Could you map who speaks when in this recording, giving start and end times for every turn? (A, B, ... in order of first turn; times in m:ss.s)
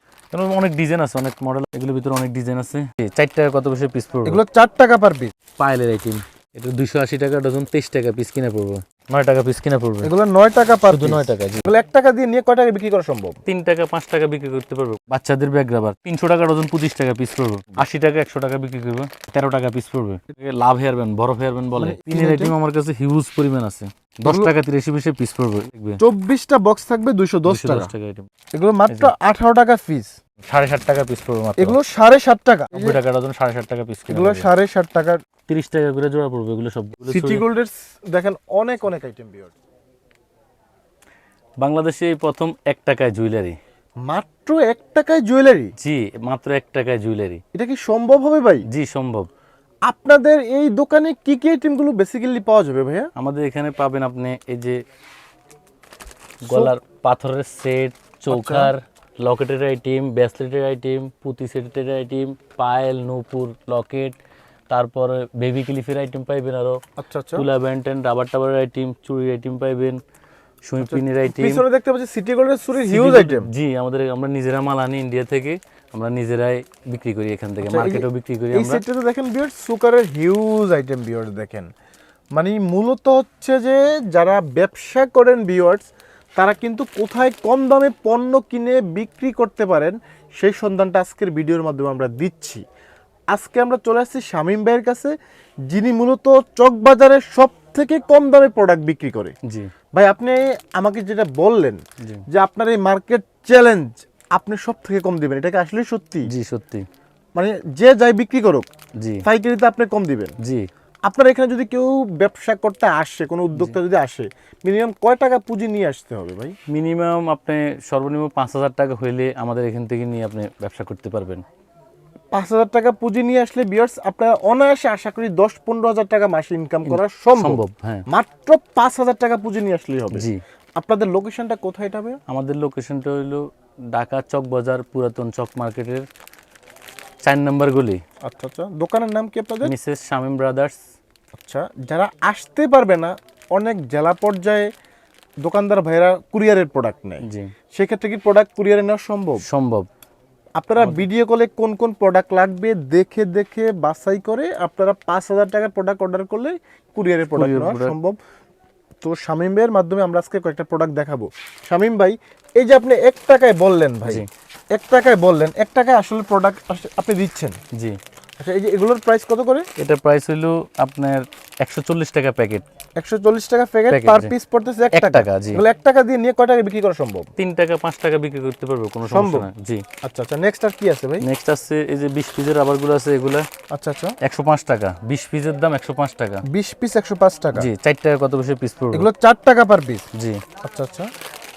0:00.3-0:04.4 A
0:04.2-0:05.3 B
0:05.6-0:10.1 A
0:10.0-0:13.4 B
0:10.9-0:11.7 A
0:13.5-0:26.0 A
0:21.8-0:22.6 B
0:24.2-0:24.5 B
0:26.0-0:27.9 B
0:27.5-0:28.3 A
0:28.5-0:30.2 B
0:30.5-0:31.8 A
0:31.6-0:33.0 B
0:32.7-0:34.5 A
0:34.1-0:35.2 B
0:35.5-0:37.4 A
0:37.1-0:39.5 B
0:41.6-0:43.6 A
0:44.0-0:45.7 B
0:45.8-0:47.4 A
0:47.5-0:48.6 B
0:48.7-0:49.3 A
0:49.8-0:53.1 B
0:53.2-0:54.8 A
0:56.4-1:04.2 A
0:56.5-0:56.7 B
0:58.3-0:58.7 B
1:04.7-1:06.8 A
1:07.0-1:07.5 B
1:07.4-1:10.0 A
1:10.6-1:11.6 A
1:10.8-1:13.5 B
1:12.8-1:18.8 A
1:17.6-1:21.7 B
1:22.3-1:32.6 B
1:33.3-1:35.1 B
1:35.7-1:39.4 B
1:39.4-1:39.7 A
1:39.9-1:46.3 B
1:46.3-1:46.8 A
1:47.4-1:48.7 B
1:49.0-1:49.2 A
1:49.2-1:50.4 B
1:50.4-1:50.7 A
1:51.1-1:56.6 B
1:56.7-2:01.4 A
2:02.3-2:12.2 B
2:06.9-2:08.1 A
2:10.1-2:10.4 A
2:12.3-2:16.0 A
2:17.2-2:18.0 A
2:18.2-2:19.7 B
2:19.6-2:20.8 A
2:21.4-2:24.7 B
2:25.4-2:27.2 B
2:27.2-2:27.5 A
2:27.8-2:29.4 B
2:29.4-2:29.9 A
2:30.6-2:38.2 B
2:30.8-2:31.0 A
2:37.3-2:38.0 A
2:39.0-2:47.6 B
2:48.4-2:49.7 B
2:49.8-2:52.6 A
2:53.0-2:57.3 B
2:53.9-2:54.3 A
2:54.9-2:55.6 A
2:57.4-2:59.8 A
2:59.0-2:59.5 B
3:00.0-3:01.3 B
3:01.2-3:03.4 A
3:03.7-3:04.2 B
3:04.2-3:06.4 A
3:06.5-3:07.7 B
3:07.6-3:09.1 A
3:08.9-3:10.1 B
3:10.2-3:10.4 A
3:10.6-3:11.1 B